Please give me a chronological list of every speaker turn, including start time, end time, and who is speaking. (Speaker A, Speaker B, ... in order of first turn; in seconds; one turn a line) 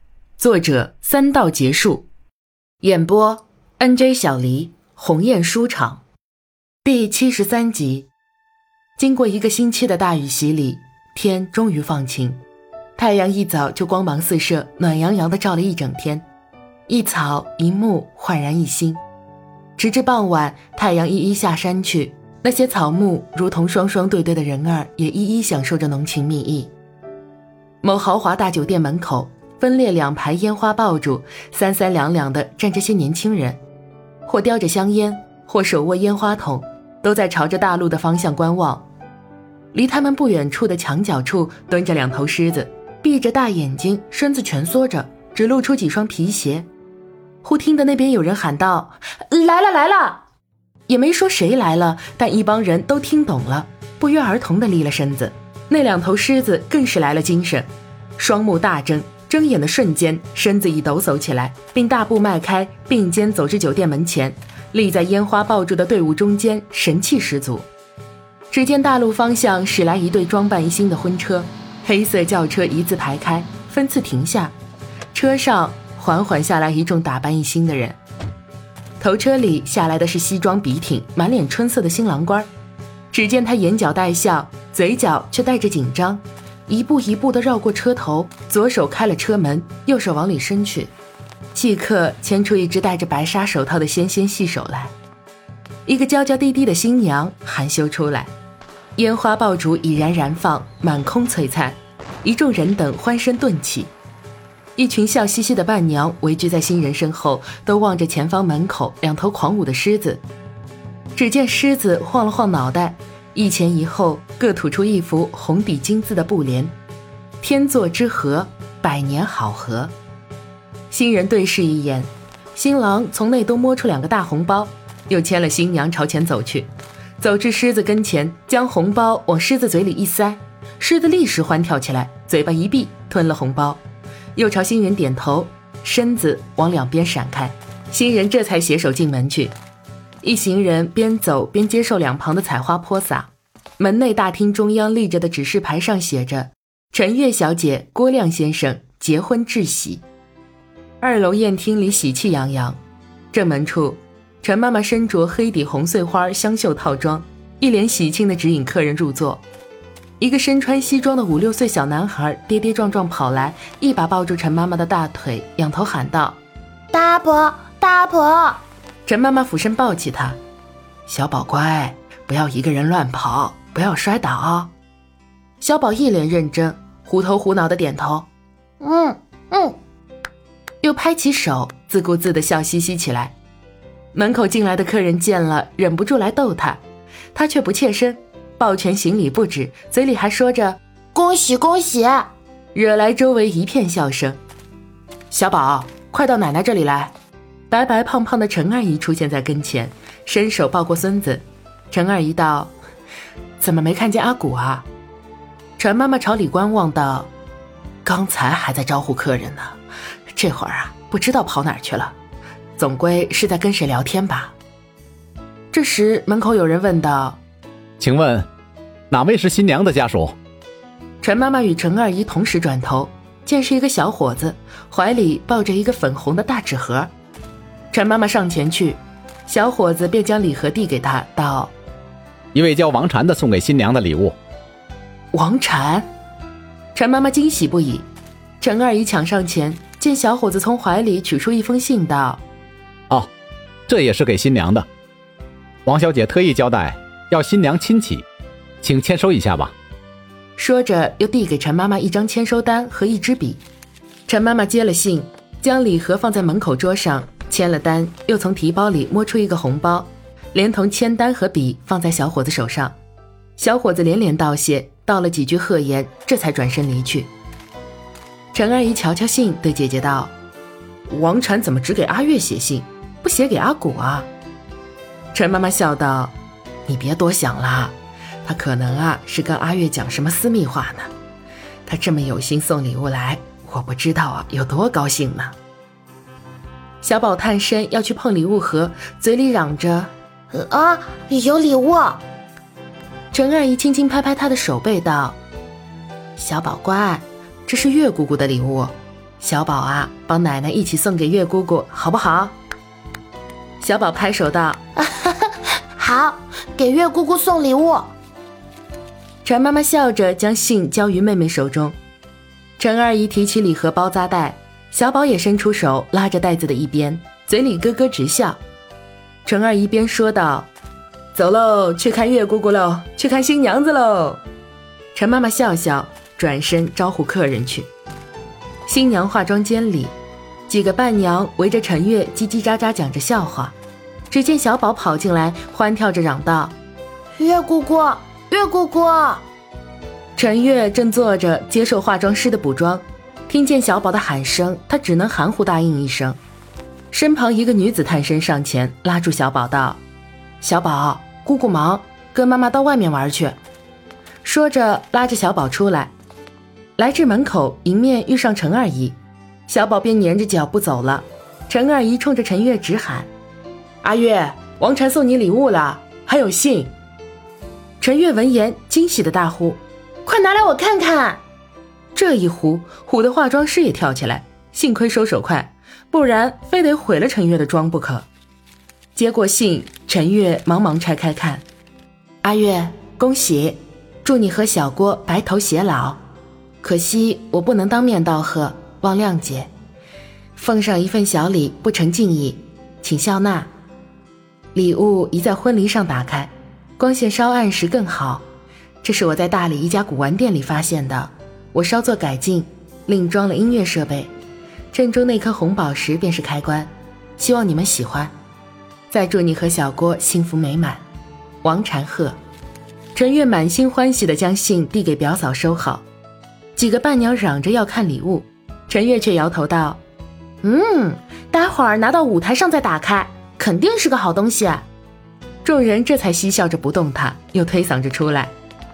Speaker A: 0.4-2.1
Speaker A: 2.8-6.0
Speaker A: 6.8-8.1
Speaker A: 9.0-12.4
Speaker A: 13.0-16.3
Speaker A: 16.9-19.0
Speaker A: 19.8-26.7
Speaker A: 27.8-33.6
Speaker A: 34.3-38.9
Speaker A: 39.7-46.7
Speaker A: 47.4-50.2
Speaker A: 50.9-67.7
Speaker A: 68.5-74.5
Speaker A: 75.1-78.0
Speaker A: 79.0-82.5
Speaker A: 83.1-90.9
Speaker A: 91.5-95.0
Speaker A: 95.9-98.3
Speaker A: 99.0-103.9
Speaker A: 104.8-110.2
Speaker A: 111.2-116.8
Speaker A: 117.4-119.9
Speaker A: 120.9-133.8
Speaker A: 134.4-139.6
Speaker A: 140.2-150.1
Speaker A: 151.0-152.8
Speaker A: 153.3-159.4
Speaker A: 160.2-166.4
Speaker B: 166.9-168.6
Speaker A: 169.1-170.4
Speaker A: 171.1-174.7
Speaker A: 175.6-178.3
Speaker B: 178.8-179.7
Speaker A: 180.8-183.3
Speaker A: 184.1-186.8
Speaker A: 187.3-191.4
Speaker B: 191.2-192.2
Speaker A: 192.7-194.4
Speaker A: 195.3-197.2
Speaker A: 197.7-202.7
Speaker A: 203.6-204.9
Speaker A: 205.8-207.3
Speaker A: 208.1-209.8
Speaker A: 210.3-212.2
Speaker A: 212.8-214.6
Speaker A: 215.7-217.4
Speaker C: 218.0-218.5
Speaker C: 219.1-220.4
Speaker A: 221.2-227.1
Speaker A: 227.9-231.7
Speaker C: 232.5-234.4
Speaker A: 235.3-236.1
Speaker A: 236.9-238.1
Speaker A: 238.6-242.4
Speaker C: 243.9-244.9
Speaker C: 245.8-248.2
Speaker C: 248.8-249.7
Speaker A: 250.6-253.6
Speaker A: 254.3-263.0
Speaker A: 263.6-267.3
Speaker A: 268.5-270.3
Speaker A: 271.1-274.3
Speaker A: 275.3-281.1
Speaker A: 281.9-285.6
Speaker A: 287.0-290.1
Speaker B: 290.5-292.2
Speaker A: 293.3-295.4
Speaker A: 296.4-302.6
Speaker A: 303.8-304.8
Speaker B: 305.2-308.1
Speaker A: 309.4-312.0
Speaker A: 312.8-318.6
Speaker A: 319.4-320.7
Speaker A: 321.3-324.4
Speaker A: 325.1-327.9
Speaker A: 328.9-330.1
Speaker A: 330.7-333.8
Speaker A: 334.3-336.8
Speaker B: 337.4-339.4
Speaker A: 340.4-346.4
Speaker A: 347.1-350.0
Speaker A: 350.6-353.6
Speaker A: 354.4-356.1
Speaker A: 357.0-363.3
Speaker A: 364.0-366.9
Speaker A: 368.0-371.4
Speaker A: 372.1-378.3
Speaker A: 379.1-381.6
Speaker A: 382.4-386.2
Speaker A: 386.8-389.7
Speaker A: 390.6-393.7
Speaker A: 394.7-398.4
Speaker A: 399.0-404.3
Speaker A: 404.9-408.3
Speaker A: 409.1-411.0
Speaker A: 411.6-412.4
Speaker A: 413.1-416.1
Speaker A: 416.8-420.0
Speaker A: 420.6-424.9
Speaker A: 425.6-428.5